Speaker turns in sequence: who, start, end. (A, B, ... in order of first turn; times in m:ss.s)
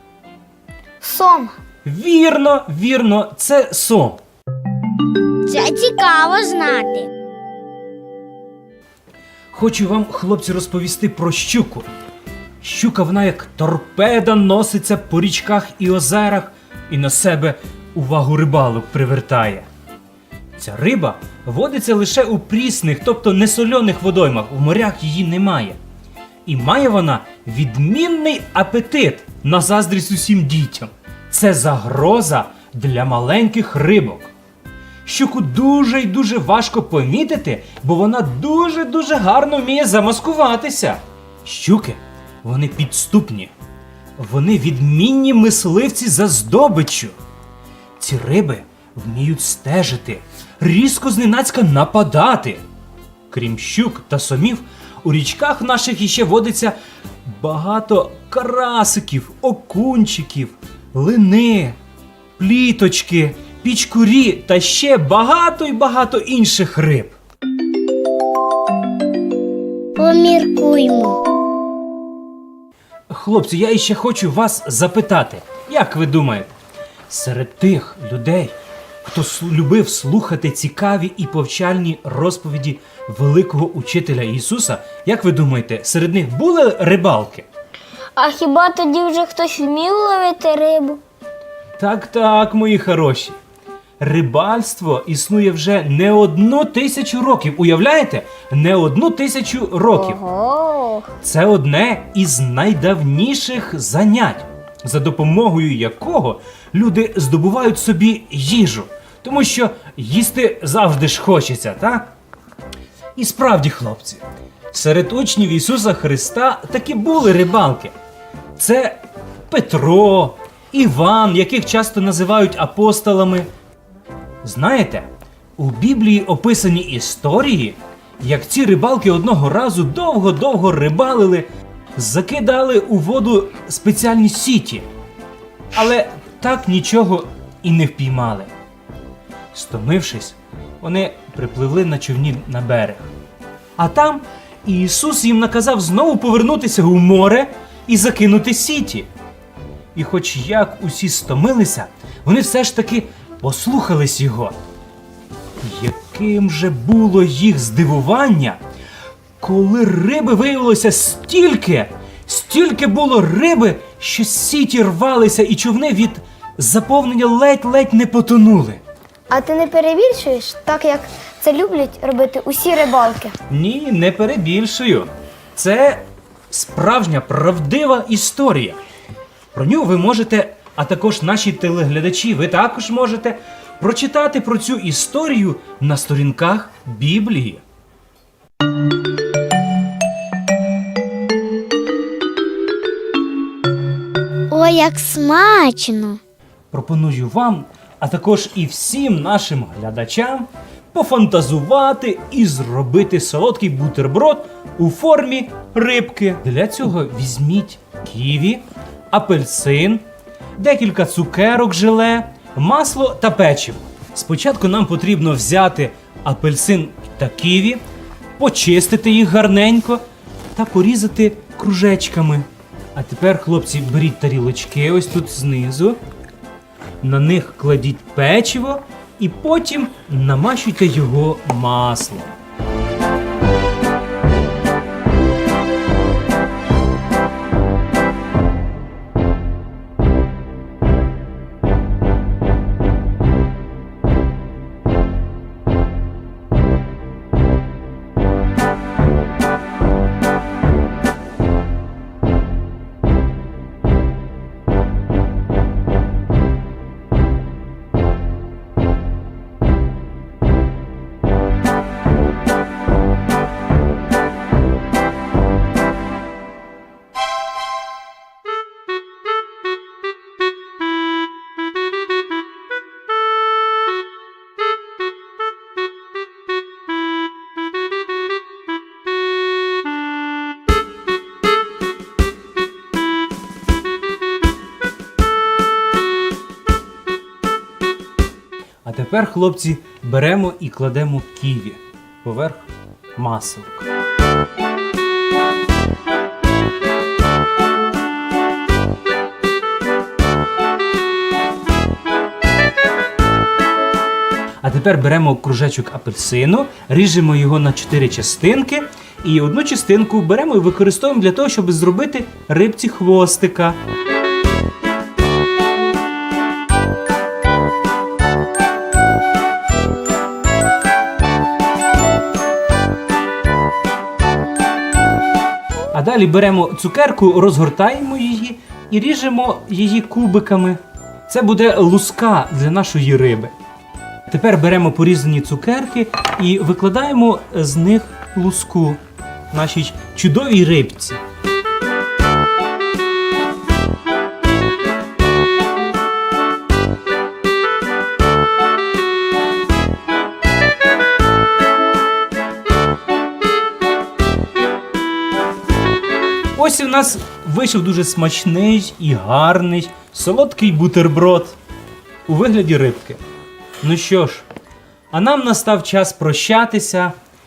0:01.0-0:01.6 A
0:01.8-0:04.2 B
0:05.5-0:07.1 C
0:09.5-0:11.9 B
0:12.6-0:19.6 B
0:20.6-0:25.8 B
0:26.4-0:34.3 B
0:35.0-0:43.5 B
0:44.2-0:47.1 B
0:48.0-0:52.6 B
0:53.3-1:01.8 B
1:02.4-1:07.1 B
1:10.0-1:11.2 C
1:13.1-1:16.5 B
1:17.1-1:27.4 B
1:28.2-1:31.0 C
1:31.8-1:33.4 B
1:34.0-1:40.2 B
1:39.9-1:41.1 C
1:41.2-1:52.1 B
1:53.2-1:57.9 B
1:58.6-2:03.5 B
2:04.4-2:14.8 B
2:15.7-2:18.5 B
2:19.5-2:23.1 B
2:23.8-2:29.1 B
2:29.9-2:34.6 B
2:35.6-2:38.6 B
2:39.4-2:48.8 B
2:49.3-2:53.3 A
2:53.5-2:58.8 B
2:59.5-3:07.6 B
3:14.5-3:16.2 C
3:16.7-3:30.0 B
3:30.6-3:37.8 B
3:38.4-3:40.0 B
3:40.5-3:46.0 B
3:47.0-3:52.4 B
4:48.8-4:53.9 B
5:04.6-5:13.8 B
5:25.9-5:33.5 B
5:34.3-5:41.2 B
5:56.5-6:01.6 B
6:02.3-6:03.2 B
6:03.8-6:04.4 B
6:05.1-6:07.1 B